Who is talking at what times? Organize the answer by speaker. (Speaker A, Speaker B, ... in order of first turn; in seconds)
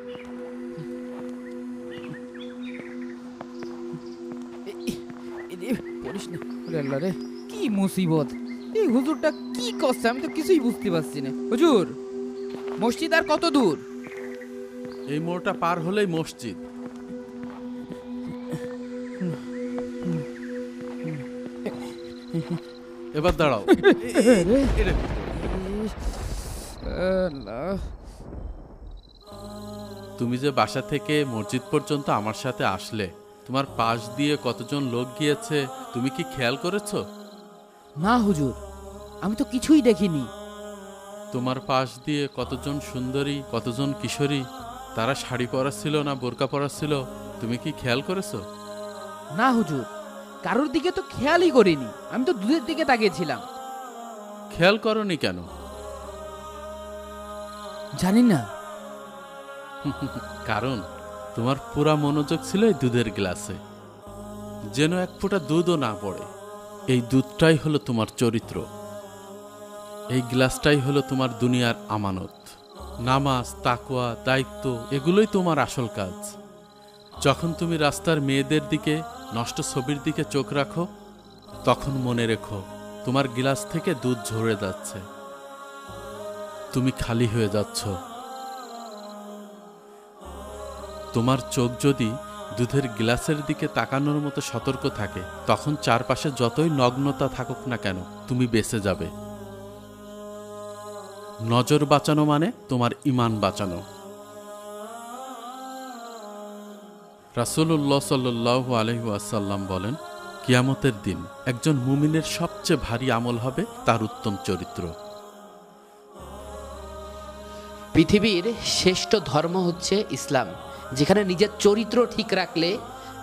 Speaker A: 4.7-11.9, 12.8-13.8, 23.7-24.7, 25.4-26.2, 26.8-27.9, 38.0-38.6, 39.2-40.3, 49.4-49.9, 50.5-53.4, 58.0-58.4, 118.1-118.4
Speaker B: 15.1-16.6, 23.1-25.4, 30.2-37.0, 41.3-44.4, 45.0-48.4, 54.5-55.5, 59.8-60.8, 61.4-63.6, 64.8-66.3, 66.9-68.6, 70.1-72.5, 73.1-76.3, 77.2-80.8, 81.7-85.0, 86.7-87.9, 91.1-99.1, 101.5-103.8, 107.4-114.9
Speaker C: 118.0-122.7